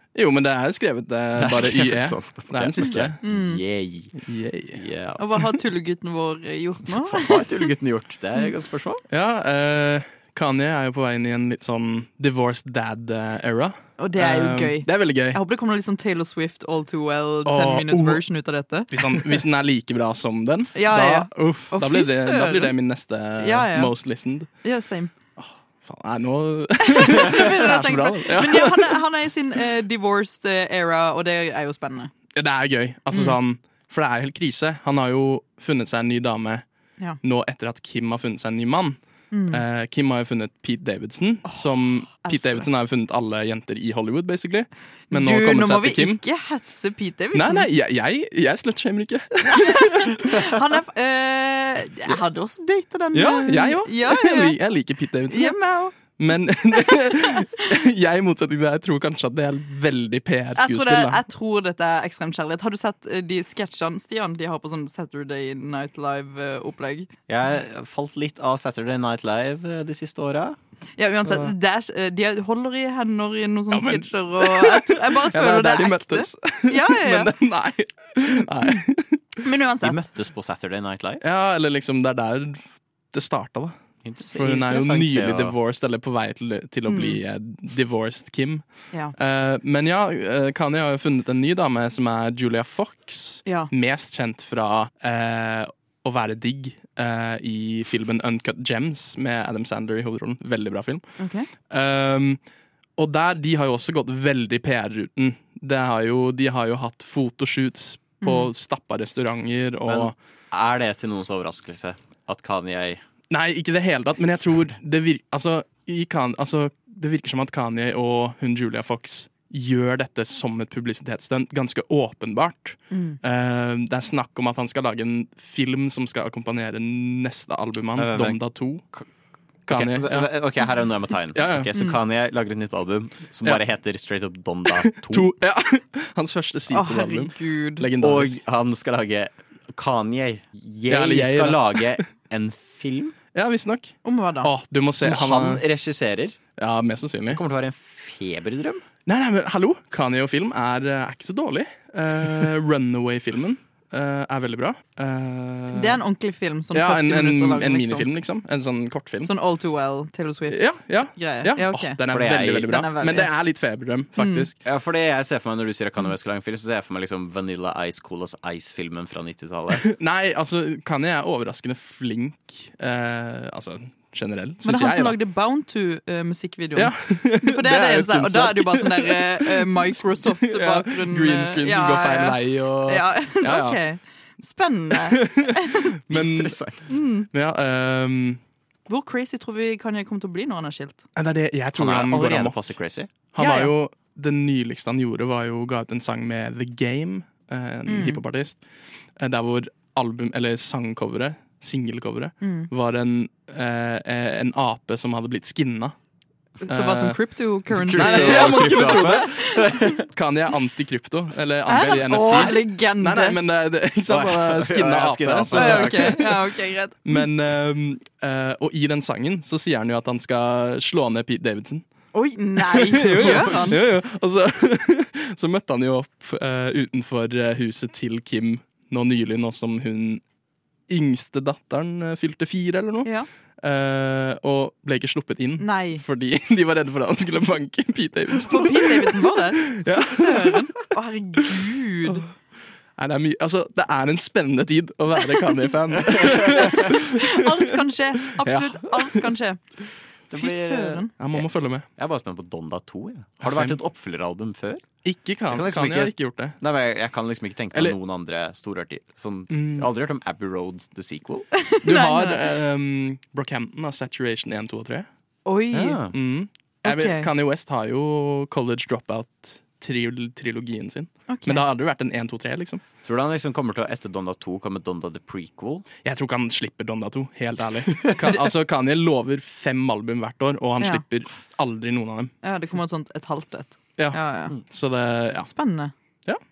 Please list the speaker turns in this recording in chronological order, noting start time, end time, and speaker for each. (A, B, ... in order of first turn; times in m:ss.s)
0:00.1-0:03.2 A
0:01.4-0:04.2 B
0:03.2-0:03.6 C
0:04.2-0:04.8 A
0:04.7-0:05.2 B
0:05.2-0:07.7 C
0:07.0-0:09.0 B
0:09.1-0:15.4 A
0:14.0-0:19.4 C
0:17.4-0:18.2 A
0:18.9-0:24.5 A
0:20.7-0:22.7 C
0:23.4-0:23.9 C
0:24.6-0:25.1 C
0:25.4-0:29.0 A
0:26.8-0:32.1 C
0:32.3-0:36.6 A
0:33.1-0:33.4 C
0:37.2-0:39.0 A
0:39.3-0:39.6 C
0:39.5-0:46.2 A
0:41.4-0:42.7 C
0:45.1-0:47.6 C
0:47.3-0:50.3 A
0:49.4-0:54.6 C
0:53.1-0:55.6 A
0:55.3-0:55.9 C
0:56.1-1:01.2 A
1:00.6-1:07.1 C
1:07.3-1:10.6 B
1:11.0-1:17.3 C
1:11.2-1:11.5 A
1:13.7-1:19.2 A
1:19.4-1:20.1 C
1:19.8-1:21.2 B
1:21.2-1:22.6 A
1:23.1-1:23.7 A
1:24.0-1:25.6 B
1:24.3-1:28.6 A
1:26.9-1:27.2 C
1:29.2-1:41.0 A
1:41.2-1:41.5 C
1:41.7-1:42.4 A
1:43.0-1:50.1 A
1:48.2-1:48.5 C
1:49.8-1:53.0 B
1:53.3-2:08.8 A
2:02.9-2:03.2 C
2:08.0-2:08.4 B
2:09.7-2:10.3 A
2:09.7-2:15.3 B
2:11.3-2:11.7 A
2:14.8-2:18.4 A
2:16.7-2:17.8 C
2:18.0-2:23.2 B
2:20.9-2:22.0 A
2:23.3-2:25.6 A
2:24.0-2:24.5 C
2:25.0-2:26.4 B
2:26.6-2:27.4 A
2:27.3-2:28.8 B
2:29.0-2:36.0 A
2:35.7-2:38.1 C
2:36.7-2:39.3 A
2:39.2-2:42.0 C
2:40.5-2:44.5 A
2:42.0-2:42.8 B
2:42.7-2:43.3 C
2:44.2-2:44.5 C
2:44.6-2:49.8 B
2:49.8-2:55.2 A
2:54.6-3:05.9 C
2:56.7-3:03.8 A
3:04.9-3:06.6 A
3:06.1-3:06.9 B
3:06.9-3:07.3 C
3:07.3-3:08.4 A
3:08.9-3:11.0 C
3:11.2-3:12.6 A
3:11.7-3:13.1 B
3:13.3-3:18.6 A
3:13.4-3:13.7 C
3:17.9-3:18.2 C
3:19.2-3:25.9 A
3:22.4-3:22.7 C
3:26.6-3:29.9 C
3:26.7-3:27.2 A
3:27.7-3:30.1 B
3:27.9-3:36.5 A
3:31.7-3:33.4 C
3:31.7-3:32.6 B
3:34.1-3:36.2 B
3:35.5-3:37.2 C
3:37.0-3:41.8 A
3:42.1-3:43.8 C
3:42.6-3:50.2 A
3:50.9-3:53.1 A
3:53.6-4:00.7 A
3:55.6-3:56.0 C
3:58.5-4:02.2 C
4:03.0-4:09.3 A
4:06.2-4:06.7 B
4:06.3-4:09.6 C
4:10.3-4:14.8 B
4:10.3-4:11.1 C
4:11.2-4:11.9 A
4:13.4-4:13.8 A
4:15.0-4:16.6 A
4:15.5-4:21.5 B
4:19.5-4:19.9 A
4:21.6-4:22.5 C
4:21.8-4:25.1 A
4:25.4-4:26.0 C
4:25.7-4:26.1 B
4:26.1-4:32.8 A
4:26.8-4:27.3 C
4:31.3-4:31.6 C
4:33.0-4:35.8 B
4:36.0-4:42.3 A
4:42.4-4:44.6 C
4:44.0-4:45.5 A
4:45.5-4:45.9 C